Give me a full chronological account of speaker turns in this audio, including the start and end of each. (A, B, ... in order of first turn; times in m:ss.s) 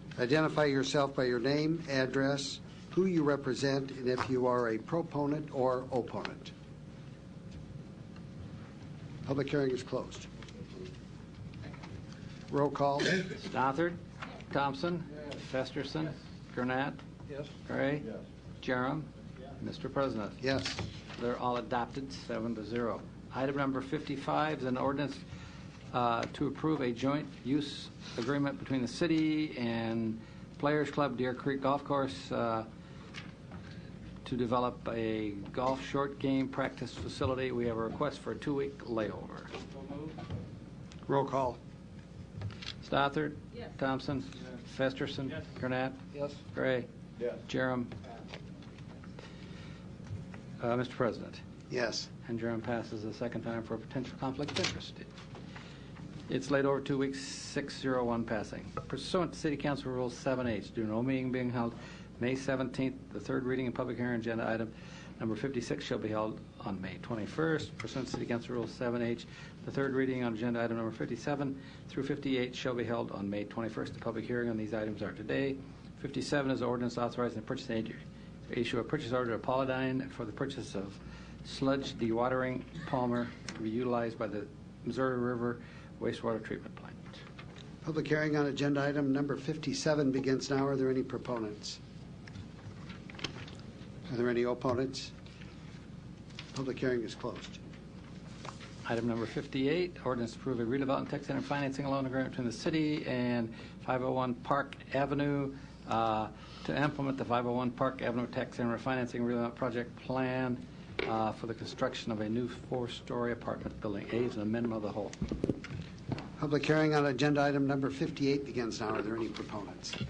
0:00.2-0:06.5 A
0:09.2-0:10.3 A
0:12.5-0:13.2 A
0:13.4-0:17.0 B
0:17.6-0:19.1 B
0:19.6-0:20.4 B
0:20.4-0:20.8 A
0:21.2-0:25.2 B
0:25.9-0:32.7 B
0:34.2-0:39.5 B
0:41.1-0:41.6 A
0:42.8-0:46.9 B
0:47.4-0:47.9 B
0:50.6-0:51.4 B
0:51.7-0:52.1 A
0:52.2-0:55.1 B
0:56.3-1:27.2 B
1:27.8-1:31.8 A
1:34.1-1:35.1 A
1:36.5-1:37.6 A
1:38.8-1:55.2 B
1:56.4-2:00.0 A